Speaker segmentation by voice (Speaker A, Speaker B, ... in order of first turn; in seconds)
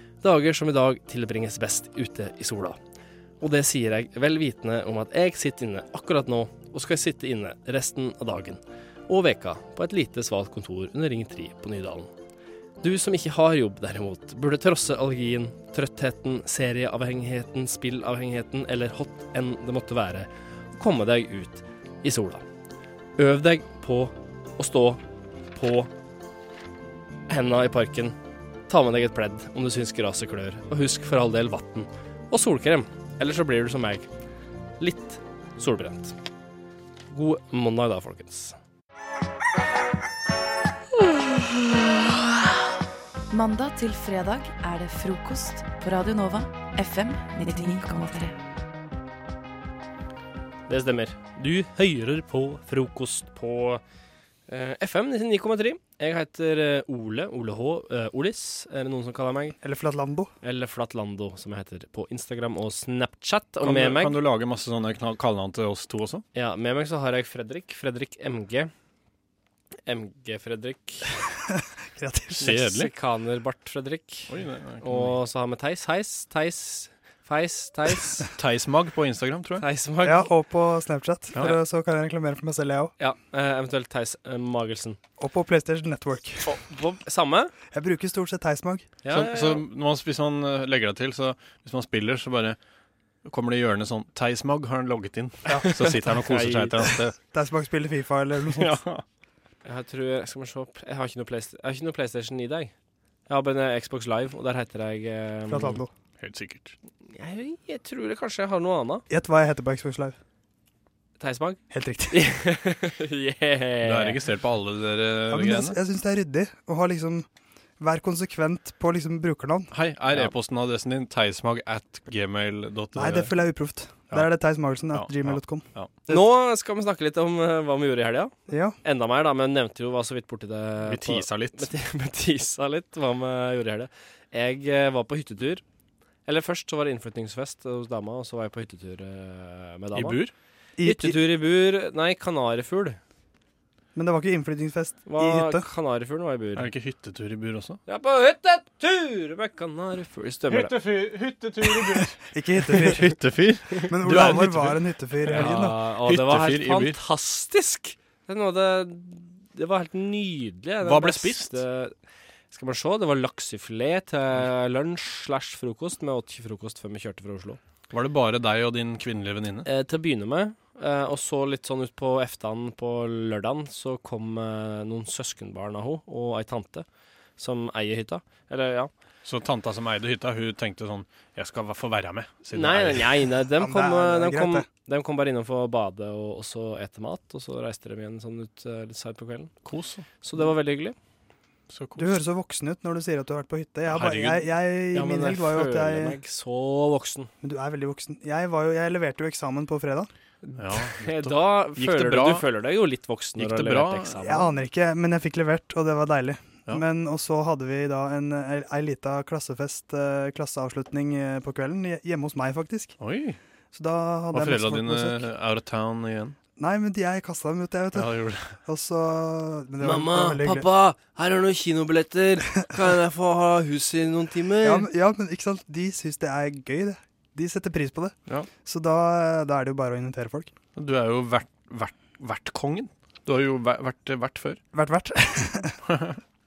Speaker A: 0.2-2.8, 3.4-12.1, 12.8-22.4, 23.2-25.0, 25.5-25.9, 27.3-28.2, 28.7-34.1, 34.8-36.1, 37.1-38.6, 50.7-53.8, 54.5-59.6, 60.4-64.2, 66.3-68.7, 69.8-71.1, 72.4-74.3, 74.8-78.3, 79.6-80.3, 83.0-85.0, 86.4-87.5, 89.0-89.6, 95.5-96.9, 99.6-102.7, 103.3-105.8, 107.1-109.0, 111.2-114.2, 126.1-135.6, 136.2-140.2, 140.8-143.0, 145.1-146.7, 147.9-150.7, 155.3-161.9, 162.5-167.6, 169.7-176.8, 177.4-178.9, 182.5-189.5, 190.2-190.9, 194.9-197.3, 200.4-204.4, 219.8-224.9
Speaker B: 43.3-48.4
Speaker C: 59.6-60.3, 71.5-72.6, 80.0-82.9, 85.2-86.5, 87.7-88.9, 97.3-98.8, 105.5-105.9, 109.1-110.2, 111.7-112.2, 115.3-117.3, 117.8-119.7, 122.9-126.2, 128.5-128.8, 140.8-141.2, 143.9-145.7, 152.3-153.1, 153.9-155.7, 183.6-184.7, 192.0-196.2, 197.4-200.1, 204.2-212.9, 213.7-215.2, 216.6-220.7, 224.6-230.5, 234.7-235.8
Speaker D: 63.6-66.2, 72.4-72.9, 74.3-75.2, 78.3-79.7, 89.1-92.6, 93.2-97.1, 98.6-99.0, 106.2-106.7, 113.8-115.8, 119.7-123.3, 124.9-125.9, 130.8-131.7, 139.9-140.3, 146.6-147.8, 150.5-157.0, 160.8-161.6, 167.9-169.7, 179.2-183.2, 189.6-190.1, 191.7-192.2, 193.9-194.5, 200.6-202.4, 203.4-204.4, 213.0-213.4, 214.3-216.3, 217.9-218.5, 230.8-234.6, 235.9-236.2